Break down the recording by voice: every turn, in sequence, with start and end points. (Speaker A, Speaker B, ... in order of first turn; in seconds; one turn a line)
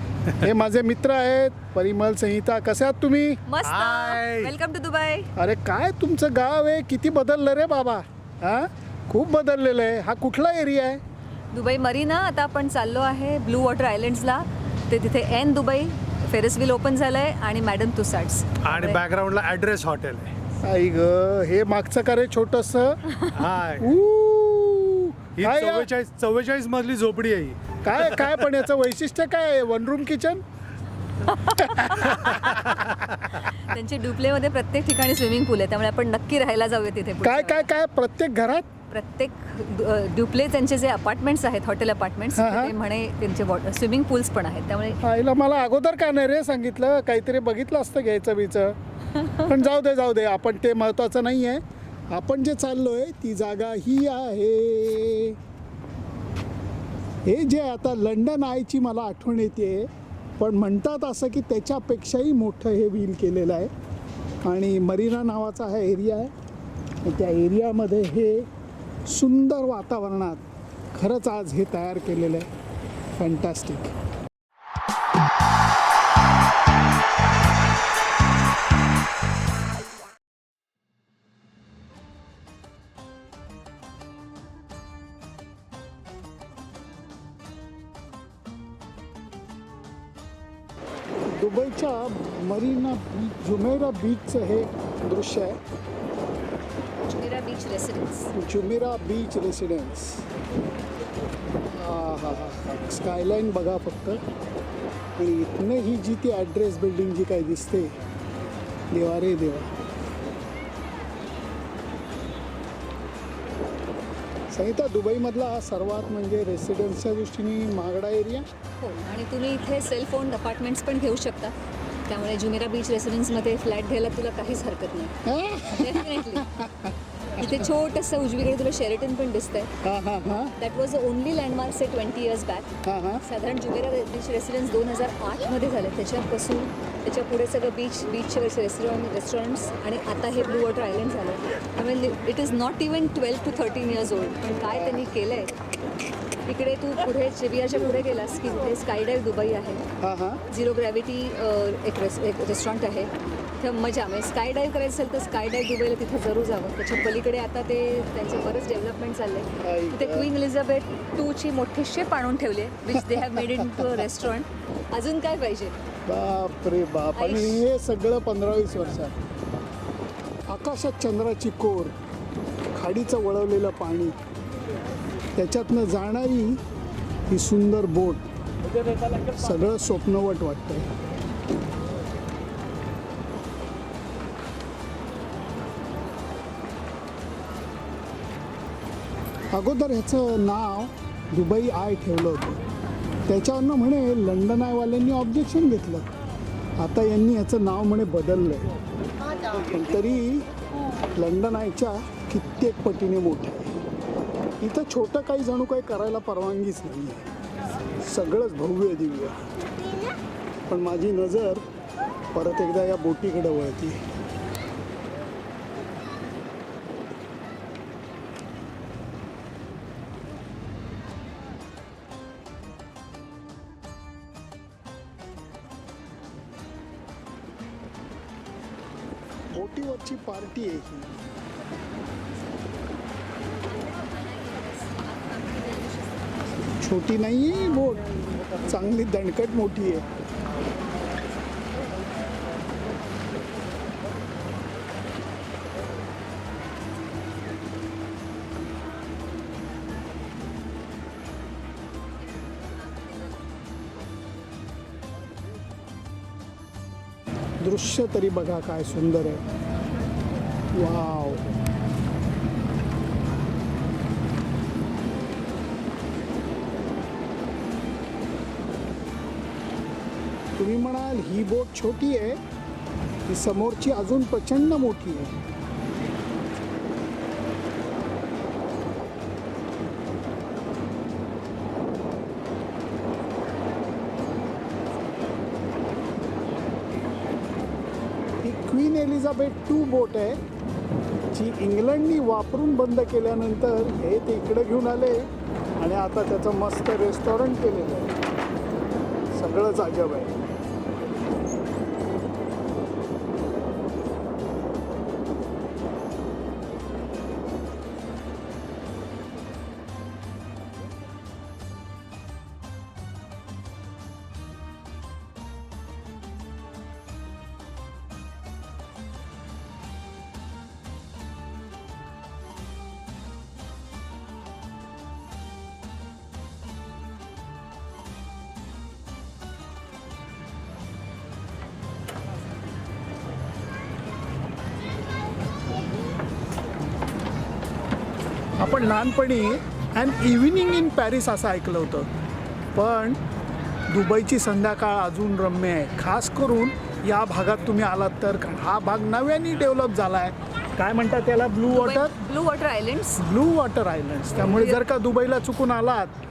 Speaker A: 0.3-3.4
Speaker B: 3.5-5.3
Speaker C: 3.6-4.5
Speaker A: 5.3-11.0
Speaker B: 11.5-19.0
Speaker C: 18.6-20.3
Speaker A: 20.6-23.0
Speaker C: 23.3-23.9
Speaker A: 23.8-25.9
Speaker C: 25.4-28.5
Speaker A: 27.8-30.4
Speaker B: 31.3-37.7
Speaker A: 31.4-32.2
Speaker C: 32.2-33.1
Speaker A: 37.2-38.7
Speaker B: 38.9-45.0
Speaker A: 42.4-42.7
Speaker A: 45.0-48.8
Speaker A: 49.5-55.4
Speaker A: 57.2-63.7
Speaker A: 64.4-66.3
Speaker A: 67.0-68.5
Speaker A: 69.1-72.5
Speaker A: 73.2-73.9
Speaker A: 91.3-95.5
Speaker B: 97.1-98.3
Speaker A: 98.3-100.2
Speaker A: 101.7-104.2
Speaker A: 105.2-108.0
Speaker A: 108.9-109.7
Speaker A: 114.5-118.4
Speaker B: 118.8-121.5
Speaker B: 122.1-126.5
Speaker A: 125.2-127.4
Speaker B: 127.3-129.7
Speaker A: 129.8-130.5
Speaker B: 130.6-132.7
Speaker A: 132.8-133.2
Speaker B: 133.2-145.5
Speaker A: 144.7-145.1
Speaker B: 146.4-149.8
Speaker A: 150.0-150.4
Speaker B: 150.5-165.7
Speaker A: 159.6-160.3
Speaker A: 163.1-163.8
Speaker A: 166.1-169.2
Speaker B: 167.2-167.6
Speaker A: 170.5-171.9
Speaker A: 172.7-174.2
Speaker A: 175.3-176.6
Speaker A: 177.3-178.2
Speaker A: 179.2-180.9
Speaker A: 189.5-192.6
Speaker A: 193.3-196.1
Speaker A: 196.8-198.7
Speaker A: 199.5-200.5
Speaker A: 201.2-203.8
Speaker A: 204.6-207.3
Speaker A: 208.0-209.4
Speaker A: 210.7-211.6
Speaker A: 212.3-214.0
Speaker A: 229.5-231.1
Speaker B: 234.1-236.3
Speaker A: 236.8-238.1
Speaker A: 238.6-240.0
Speaker A: 257.6-259.4
Speaker A: 260.7-261.4
Speaker A: 270.6-272.4
Speaker A: 273.2-275.3
Speaker A: 288.4-290.4
Speaker A: 291.3-295.3
Speaker A: 295.8-298.1
Speaker A: 299.3-300.4
Speaker A: 338.6-342.1
Speaker A: 342.7-343.2
Speaker A: 343.9-352.1
Speaker B: 351.7-353.2
Speaker A: 353.2-356.1
Speaker B: 354.4-354.8